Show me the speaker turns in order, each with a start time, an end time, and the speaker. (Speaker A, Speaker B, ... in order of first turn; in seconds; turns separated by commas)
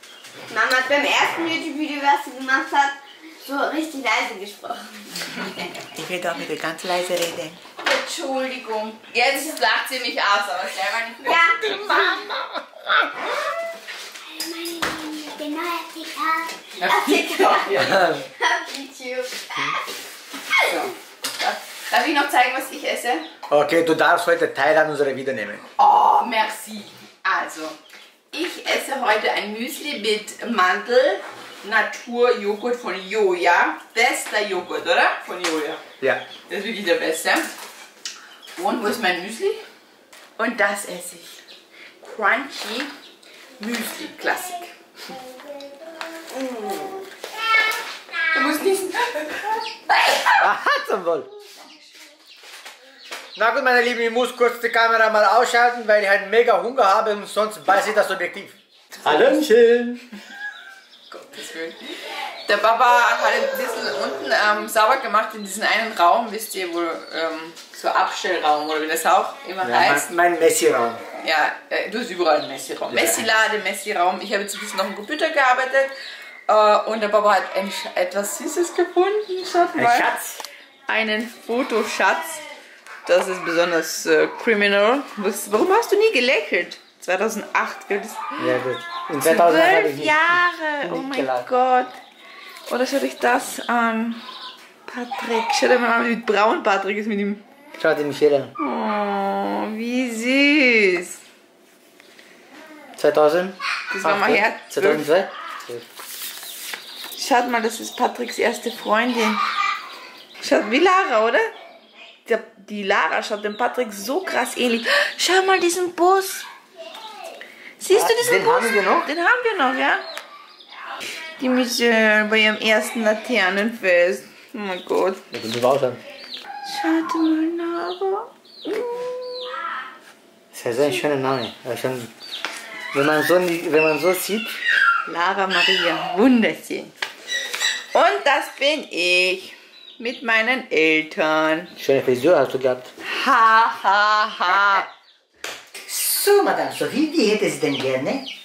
Speaker A: 0.5-5.9, Speaker B: 6.0-7.6, Speaker C: 7.9-12.0, Speaker A: 8.0-8.6, Speaker A: 11.2-12.3, Speaker B: 11.7-12.5, Speaker A: 14.3-19.8, Speaker C: 16.7-18.0, Speaker B: 17.7-18.3, Speaker C: 20.6-23.3, Speaker B: 23.5-25.6, Speaker C: 25.8-27.8, Speaker C: 28.3-35.8, Speaker C: 36.5-37.5, Speaker C: 38.6-39.6, Speaker C: 40.4-41.4, Speaker C: 42.0-42.9, Speaker C: 43.6-44.8, Speaker A: 46.3-47.1, Speaker C: 48.2-50.5, Speaker B: 50.4-51.3, Speaker B: 53.4-60.0, Speaker C: 59.0-59.4, Speaker C: 61.1-70.1, Speaker B: 69.6-71.0, Speaker C: 71.1-75.9, Speaker B: 72.9-73.2, Speaker C: 76.5-80.1, Speaker B: 79.8-80.4, Speaker C: 80.9-82.5, Speaker C: 83.0-88.5, Speaker B: 88.4-91.5, Speaker C: 89.2-92.0, Speaker C: 92.7-94.2, Speaker C: 94.9-97.4, Speaker B: 97.8-98.5, Speaker C: 98.6-101.2, Speaker B: 103.0-105.9, Speaker C: 103.9-105.1, Speaker C: 107.2-109.4, Speaker C: 110.4-111.5, Speaker C: 112.2-116.5, Speaker C: 117.8-120.0, Speaker B: 117.9-119.1, Speaker C: 121.4-125.2, Speaker B: 125.3-126.0, Speaker C: 126.6-129.6, Speaker B: 130.5-132.1, Speaker B: 132.9-134.6, Speaker C: 135.1-136.9, Speaker C: 137.9-141.7, Speaker B: 141.8-142.9, Speaker C: 143.0-144.9, Speaker B: 145.9-148.3